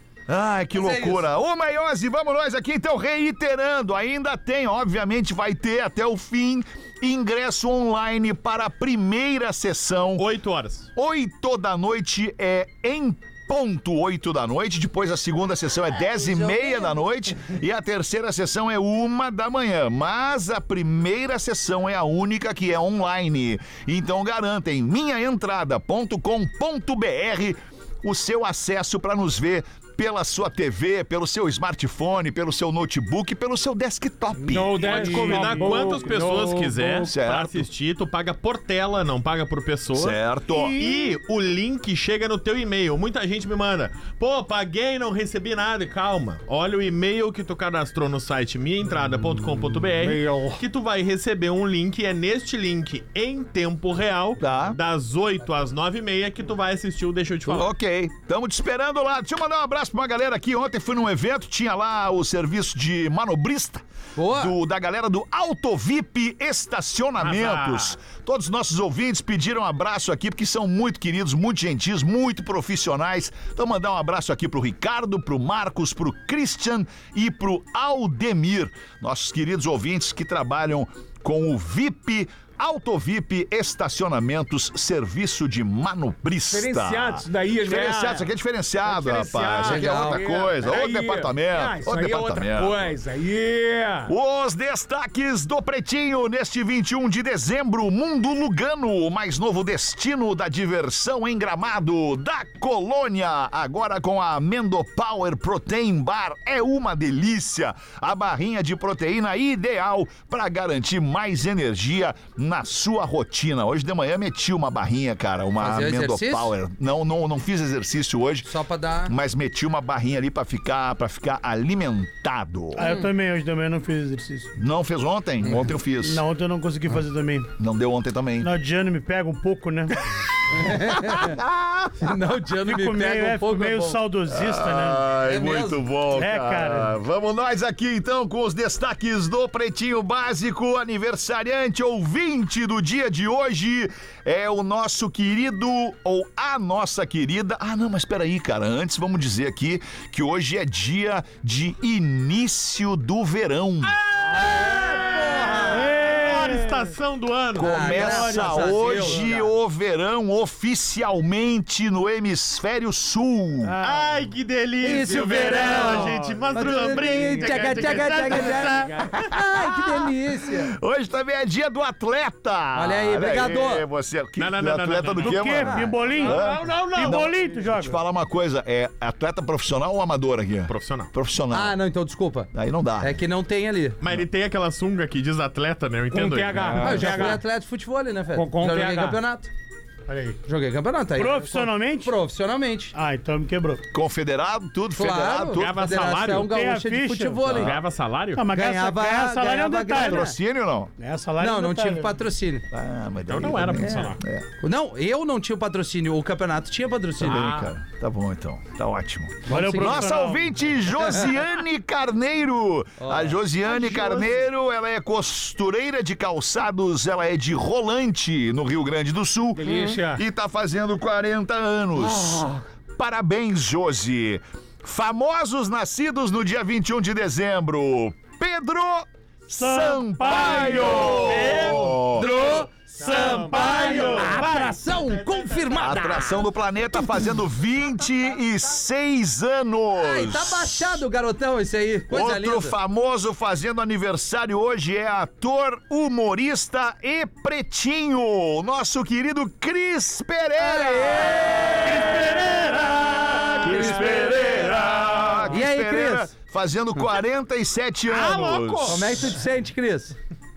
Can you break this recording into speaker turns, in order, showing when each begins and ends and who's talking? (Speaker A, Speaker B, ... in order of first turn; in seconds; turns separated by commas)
Speaker A: 0.3-10.3, Speaker B: 0.7-1.3, Speaker C: 10.2-10.9, Speaker A: 10.9-35.4, Speaker B: 16.1-17.0, Speaker D: 34.4-37.1, Speaker C: 34.8-57.7, Speaker E: 35.3-36.0, Speaker A: 37.1-37.7, Speaker A: 39.9-40.8, Speaker E: 40.5-41.1, Speaker D: 50.0-50.6, Speaker A: 54.4-54.8, Speaker A: 57.4-92.9, Speaker B: 64.2-64.5, Speaker C: 67.2-68.0, Speaker D: 86.5-88.3, Speaker D: 88.8-94.1, Speaker B: 89.6-90.2, Speaker A: 94.1-118.5, Speaker B: 115.6-116.5, Speaker B: 118.4-119.1, Speaker A: 119.1-122.9, Speaker E: 122.8-124.5, Speaker B: 122.8-123.1, Speaker A: 124.6-126.2, Speaker E: 126.0-127.5, Speaker A: 127.6-128.5, Speaker E: 128.4-130.0, Speaker B: 130.5-131.4, Speaker A: 130.7-131.9, Speaker B: 132.0-134.0, Speaker E: 132.6-135.1, Speaker A: 134.3-154.0, Speaker B: 135.2-135.8, Speaker E: 136.1-136.9, Speaker C: 153.8-157.7, Speaker B: 154.3-155.9, Speaker E: 155.7-156.9, Speaker A: 157.6-163.8, Speaker B: 157.6-159.5, Speaker E: 157.7-159.4, Speaker E: 163.6-164.2, Speaker C: 163.8-169.1, Speaker B: 164.8-170.7, Speaker E: 165.3-168.9, Speaker A: 169.1-181.8, Speaker B: 172.8-173.9, Speaker C: 174.4-177.3, Speaker E: 175.2-178.0, Speaker B: 175.4-176.0, Speaker C: 180.7-181.1, Speaker B: 181.5-184.0, Speaker A: 182.5-183.2, Speaker C: 184.0-187.4, Speaker D: 186.1-187.4, Speaker B: 186.8-189.5, Speaker D: 188.3-189.2, Speaker D: 190.1-190.4, Speaker B: 190.4-192.9, Speaker E: 191.2-192.2, Speaker E: 192.9-193.8, Speaker A: 193.9-195.8, Speaker B: 194.9-197.8, Speaker C: 195.5-196.6, Speaker E: 196.4-197.7, Speaker C: 197.6-198.4, Speaker E: 198.4-200.3, Speaker B: 198.5-200.4, Speaker A: 199.9-200.9, Speaker E: 201.0-202.2, Speaker B: 201.4-202.6, Speaker A: 202.7-204.5, Speaker C: 203.3-204.2, Speaker B: 203.8-207.5, Speaker A: 207.2-232.3, Speaker C: 207.2-207.7, Speaker B: 209.4-210.2, Speaker E: 209.5-210.6, Speaker B: 211.0-211.3, Speaker B: 213.0-213.4, Speaker C: 213.8-214.3, Speaker D: 219.6-220.2, Speaker B: 219.7-219.9, Speaker D: 221.9-222.6, Speaker E: 229.5-231.8, Speaker C: 230.8-235.9, Speaker B: 231.3-237.3, Speaker E: 233.0-234.8, Speaker A: 235.8-241.1, Speaker B: 240.0-242.8, Speaker A: 242.1-252.3, Speaker B: 250.6-252.3, Speaker E: 251.9-253.8, Speaker B: 253.3-254.3, Speaker A: 253.6-259.3, Speaker B: 255.5-256.3, Speaker C: 258.1-259.2, Speaker B: 258.9-260.2